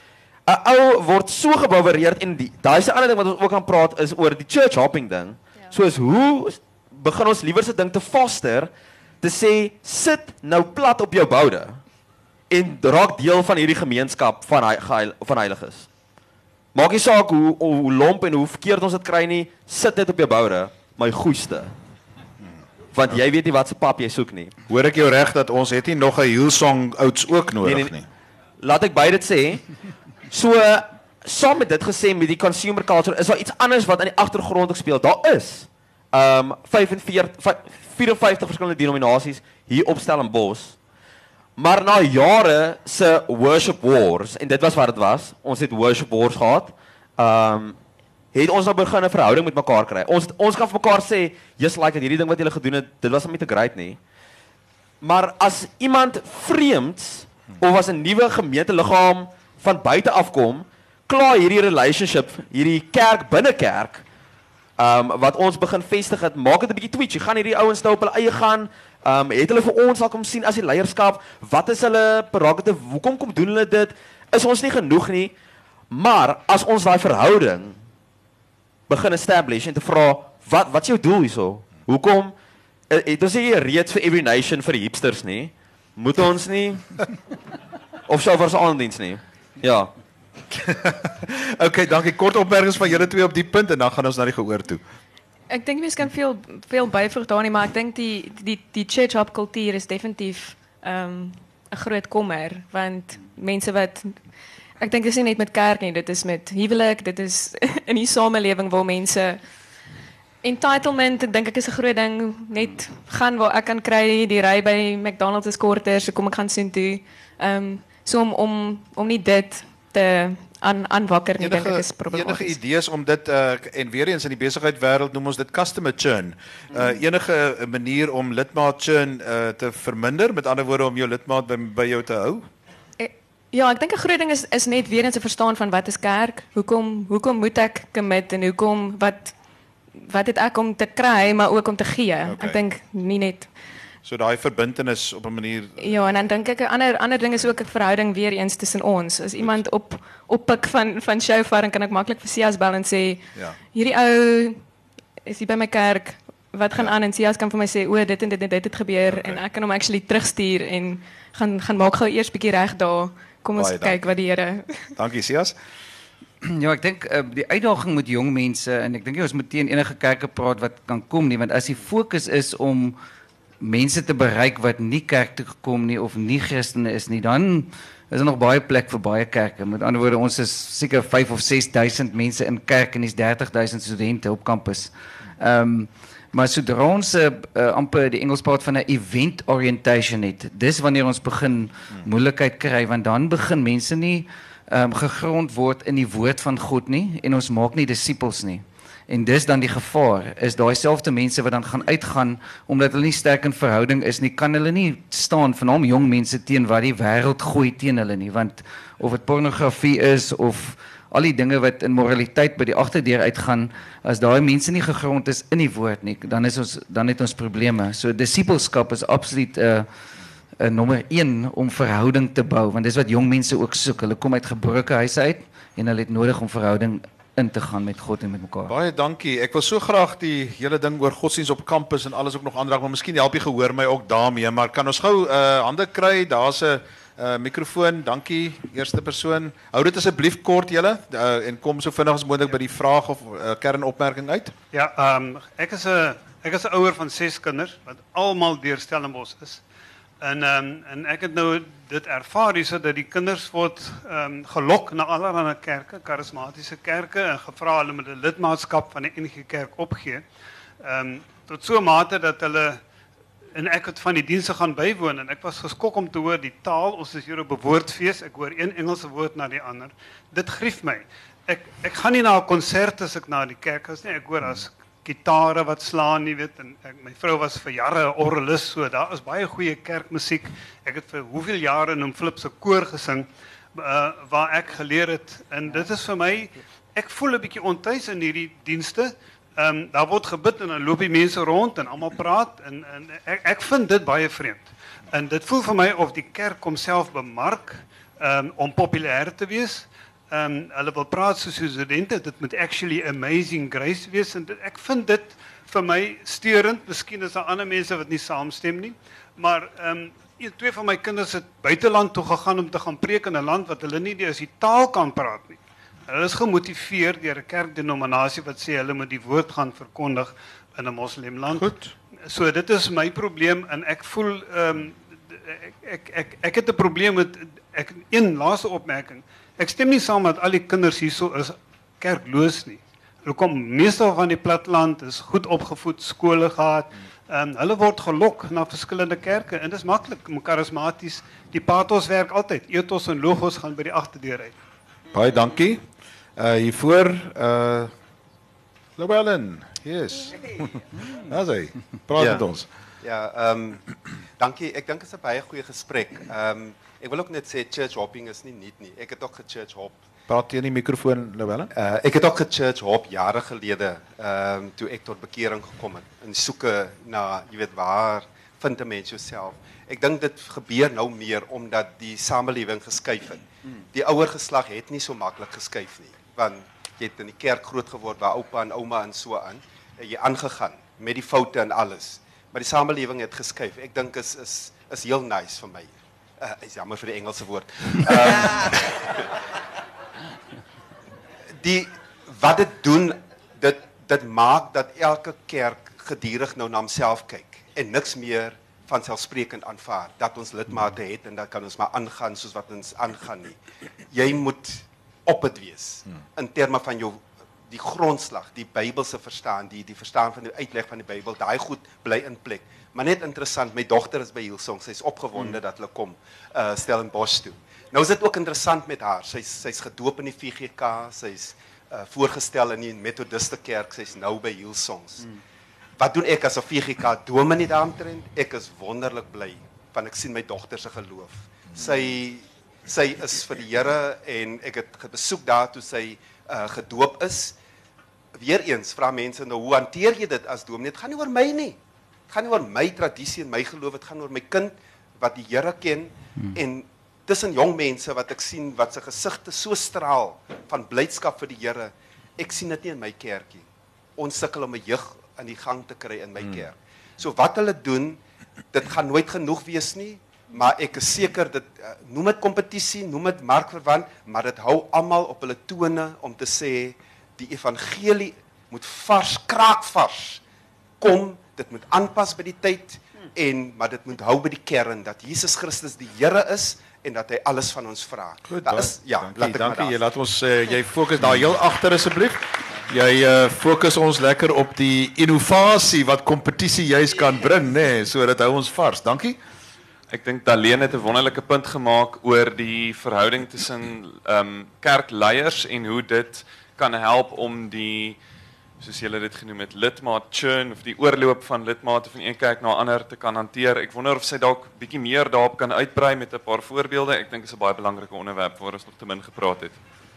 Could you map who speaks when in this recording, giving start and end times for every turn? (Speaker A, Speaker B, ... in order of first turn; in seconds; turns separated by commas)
Speaker A: 0.5-8.7, Speaker A: 9.2-11.8, Speaker A: 12.5-15.9, Speaker A: 16.8-21.7, Speaker A: 22.9-24.5, Speaker B: 24.7-28.1, Speaker A: 27.6-27.9, Speaker A: 28.6-29.6, Speaker A: 30.3-40.8, Speaker A: 41.6-47.8, Speaker A: 48.3-54.0, Speaker A: 55.0-64.0, Speaker A: 64.8-75.3, Speaker A: 75.9-77.8, Speaker A: 78.9-82.3, Speaker A: 82.9-86.8, Speaker A: 88.1-89.9, Speaker B: 90.5-94.8, Speaker C: 95.5-104.2, Speaker C: 104.8-109.4, Speaker C: 110.4-122.6, Speaker B: 121.4-132.5, Speaker C: 133.0-139.3, Speaker C: 140.0-143.5, Speaker B: 142.3-142.6, Speaker B: 144.1-145.9, Speaker C: 145.8-154.6, Speaker C: 155.2-164.9, Speaker B: 159.1-159.4, Speaker B: 163.6-164.0, Speaker B: 165.0-165.6, Speaker D: 166.4-173.0, Speaker D: 173.6-219.9, Speaker D: 220.6-228.7, Speaker B: 228.7-244.5, Speaker E: 244.7-249.6, Speaker E: 250.2-260.2, Speaker E: 260.8-262.8, Speaker E: 263.6-321.7, Speaker B: 321.5-321.9, Speaker E: 322.3-344.6, Speaker B: 345.1-345.8, Speaker B: 346.4-347.9, Speaker B: 349.0-350.6, Speaker B: 351.2-352.7, Speaker F: 352.2-352.4, Speaker F: 353.0-353.8, Speaker F: 354.4-360.0, Speaker B: 360.3-361.7, Speaker F: 361.7-389.1, Speaker F: 391.6-403.6, Speaker F: 404.1-425.2, Speaker F: 426.0-437.6, Speaker F: 438.4-441.8, Speaker F: 442.3-453.7, Speaker F: 454.2-458.2, Speaker F: 458.7-470.4, Speaker F: 471.0-480.0, Speaker B: 478.5-489.4, Speaker G: 490.1-498.2, Speaker G: 498.8-509.8